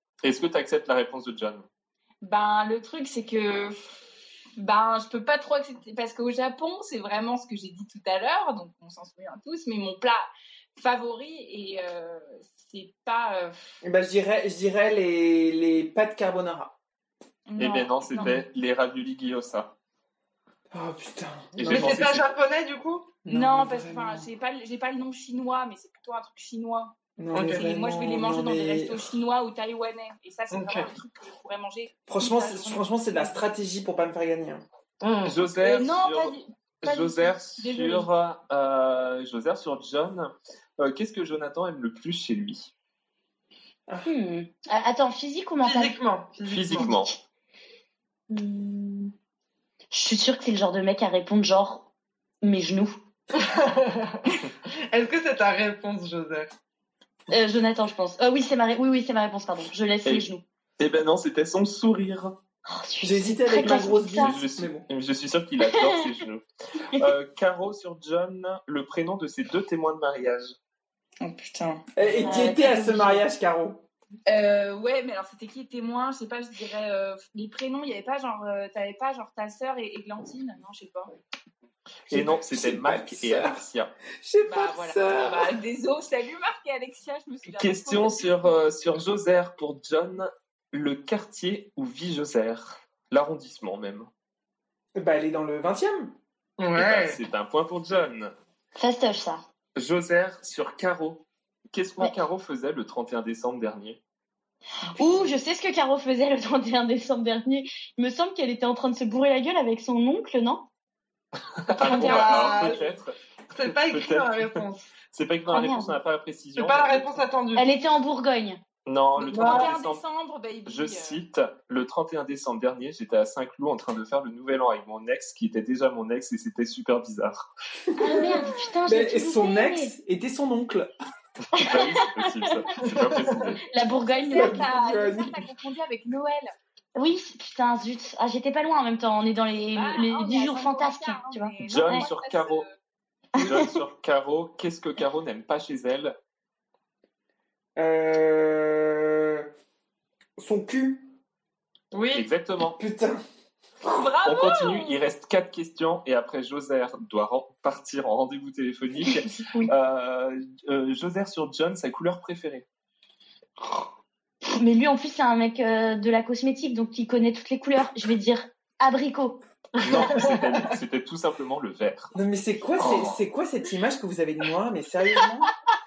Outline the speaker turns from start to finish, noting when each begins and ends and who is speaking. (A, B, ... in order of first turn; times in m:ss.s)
0:00.2-0:01.7 A
0:02.2-0:03.8 B
0:04.6-0:13.8 B
0:13.8-0:16.8 C
0:17.5-0:18.4 B
0:17.6-0:19.7 A
0:20.7-0:22.1 C
0:21.6-0:22.3 A
0:21.6-0:23.2 D
0:23.2-0:24.2 C
0:23.3-0:26.9 B
0:27.2-0:29.1 C
0:27.3-0:27.7 D
0:27.4-0:33.3 B
0:30.5-0:30.9 D
0:32.1-0:34.7 C
0:35.0-0:35.5 D
0:35.2-0:42.7 A
0:35.6-0:38.1 B
0:44.0-0:46.0 E
0:45.6-0:47.0 D
0:46.4-0:47.1 A
0:46.7-0:47.2 E
0:48.3-0:49.1 E
0:49.9-0:51.9 E
0:52.4-0:53.0 E
0:53.3-0:56.5 D
0:57.3-1:00.4 E
1:00.8-1:02.4 A
1:02.7-1:04.4 E
1:03.0-1:04.9 C
1:04.1-1:10.6 A
1:05.6-1:06.2 E
1:11.2-1:12.3 B
1:12.0-1:13.8 C
1:12.2-1:13.2 E
1:14.3-1:21.1 B
1:22.1-1:23.6 C
1:22.1-1:23.9 A
1:24.2-1:25.5 C
1:24.4-1:28.5 B
1:27.5-1:34.1 A
1:35.0-1:36.2 C
1:36.6-1:37.2 D
1:36.8-1:38.3 A
1:38.8-1:39.4 E
1:39.8-1:44.0 A
1:44.9-1:50.6 E
1:51.7-1:52.8 B
1:51.7-1:57.2 A
1:51.8-1:53.0 D
1:53.5-1:54.9 D
1:55.5-1:56.0 E
1:56.6-1:57.8 D
1:57.6-1:58.6 E
1:58.9-2:00.0 A
1:59.2-2:01.2 B
1:59.3-1:59.8 D
2:00.7-2:07.5 A
2:08.0-2:09.9 E
2:08.0-2:10.9 C
2:08.1-2:08.5 B
2:11.5-2:13.6 A
2:11.6-2:12.5 E
2:12.9-2:13.3 D
2:13.6-2:14.7 E
2:13.7-2:16.5 B
2:14.3-2:15.4 C
2:17.0-2:22.1 E
2:19.7-2:22.8 B
2:21.6-2:22.7 A
2:23.4-2:23.8 E
2:23.4-2:26.2 A
2:27.8-2:29.5 C
2:30.4-2:31.1 C
2:31.9-2:32.3 D
2:32.1-2:32.8 A
2:32.8-2:33.2 C
2:33.8-2:35.0 B
2:34.2-2:42.6 A
2:43.6-2:43.9 E
2:44.4-2:49.4 E
2:49.8-2:50.7 D
2:49.8-2:52.1 A
2:52.2-2:55.5 C
2:52.8-2:53.2 A